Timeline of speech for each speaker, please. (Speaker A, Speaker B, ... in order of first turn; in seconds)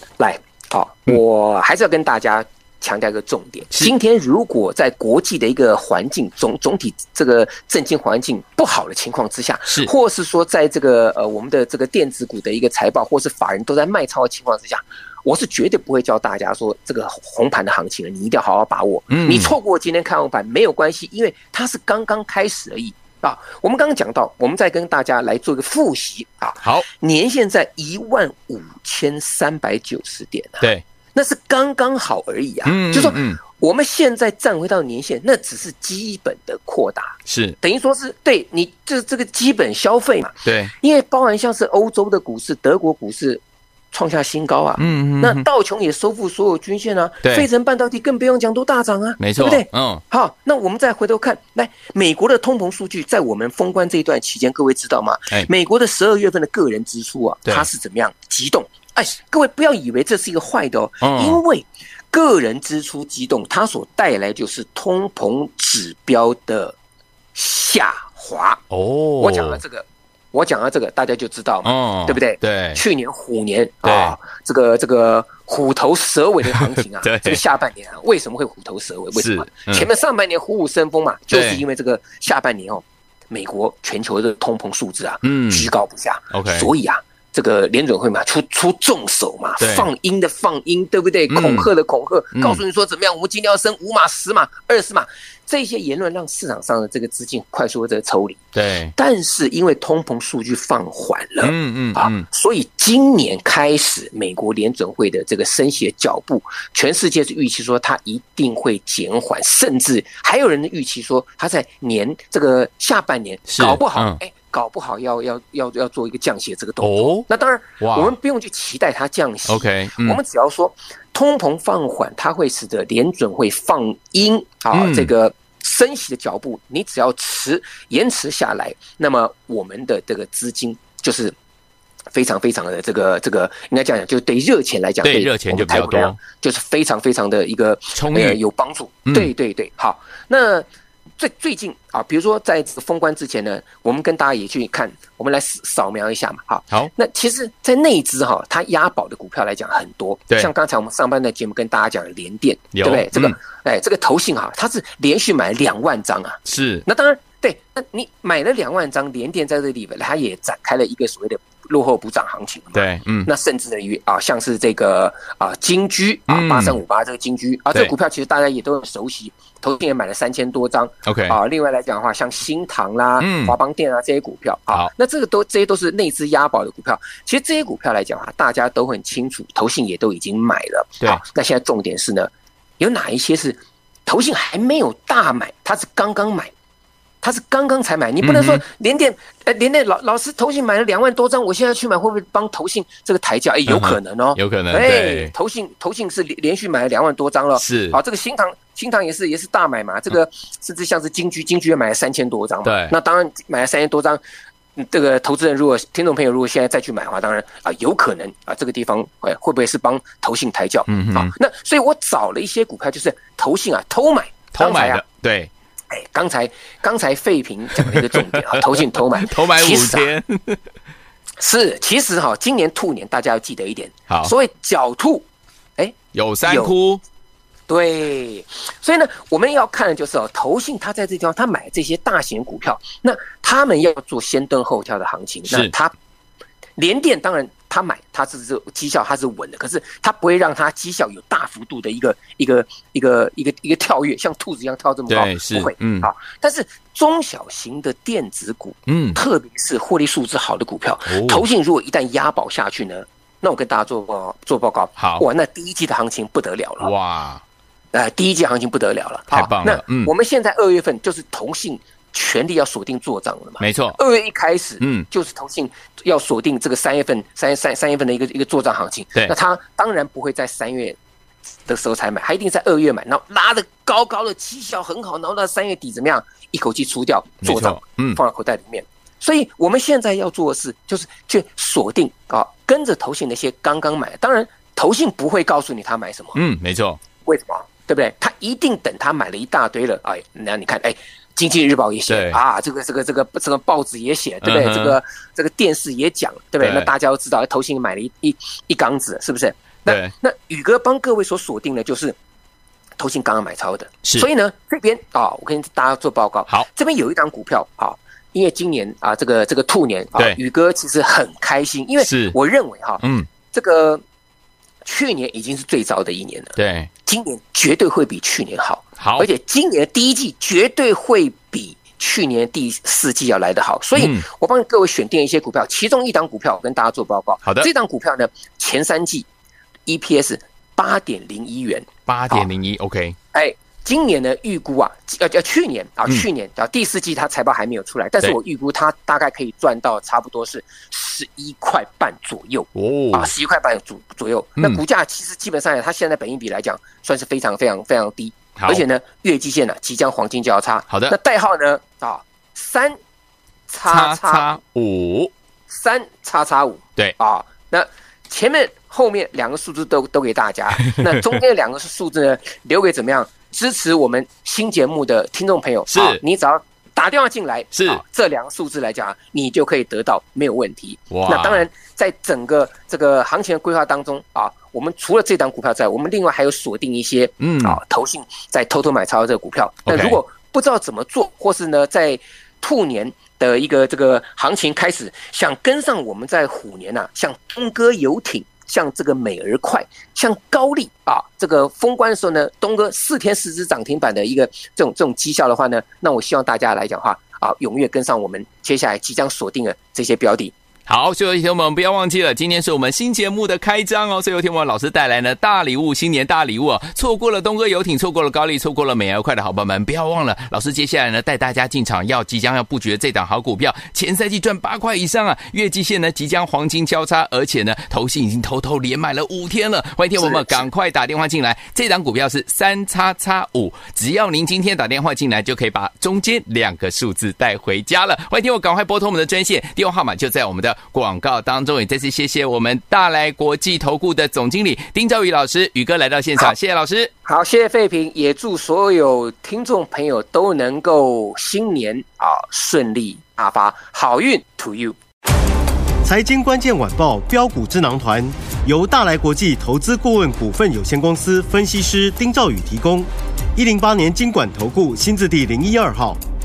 Speaker A: 0.2-43.4, 43.9-66.7, 67.3-68.6, 69.2-98.4, 99.0-131.3, 132.1-140.7, 141.2-186.5, 187.2-204.2, 204.8-215.0, 215.9-220.1, 221.4-225.2, 225.8-226.7, 227.7-235.9, 236.8-256.9, 257.9-271.0, 271.7-286.4, 287.2-302.1, 303.0-314.0, 314.8-329.3, 329.9-332.5, 333.3-353.0, 353.7-354.6, 355.7-400.5, 420.2-420.6, 437.2-444.9
Speaker B: 19.1-19.5, 32.6-33.4, 37.3-37.5, 40.4-40.7, 44.8-45.4, 49.2-50.0, 61.0-61.4, 68.7-69.6, 71.6-72.8, 73.8-74.2, 77.0-77.4, 79.1-79.9, 81.3-81.6, 85.2-85.7, 86.3-86.7, 89.6-89.9, 91.3-91.7, 92.3-92.6, 98.5-98.9, 101.4-102.2, 113.5-114.2, 116.8-117.2, 117.8-118.1, 119.5-120.2, 124.7-125.1, 135.0-136.2, 137.9-138.4, 152.7-153.4, 156.4-156.8, 162.7-163.3, 166.3-166.8, 171.1-171.4, 173.2-173.6, 188.2-188.6, 193.7-195.3, 197.6-198.0, 202.6-202.9, 210.9-211.3, 214.5-215.5, 217.7-220.6, 226.1-227.0, 235.5-235.7, 245.1-246.1, 248.9-249.2, 251.1-251.4, 255.0-255.2, 256.8-257.4, 259.3-260.1, 263.6-264.0, 264.8-265.1, 277.4-278.2, 286.3-287.0, 292.1-292.4, 294.4-295.0, 296.6-296.9, 299.9-300.1, 312.0-312.4, 313.0-313.3, 316.6-316.9, 319.0-319.3, 323.9-324.2, 332.1-333.2, 342.7-343.3, 348.6-348.8, 350.9-351.1, 353.9-355.3, 360.8-361.4, 365.9-366.2, 367.7-368.0, 371.1-371.6, 377.4-377.8, 379.9-380.2, 400.9-437.1
Speaker C: 446.0-456.2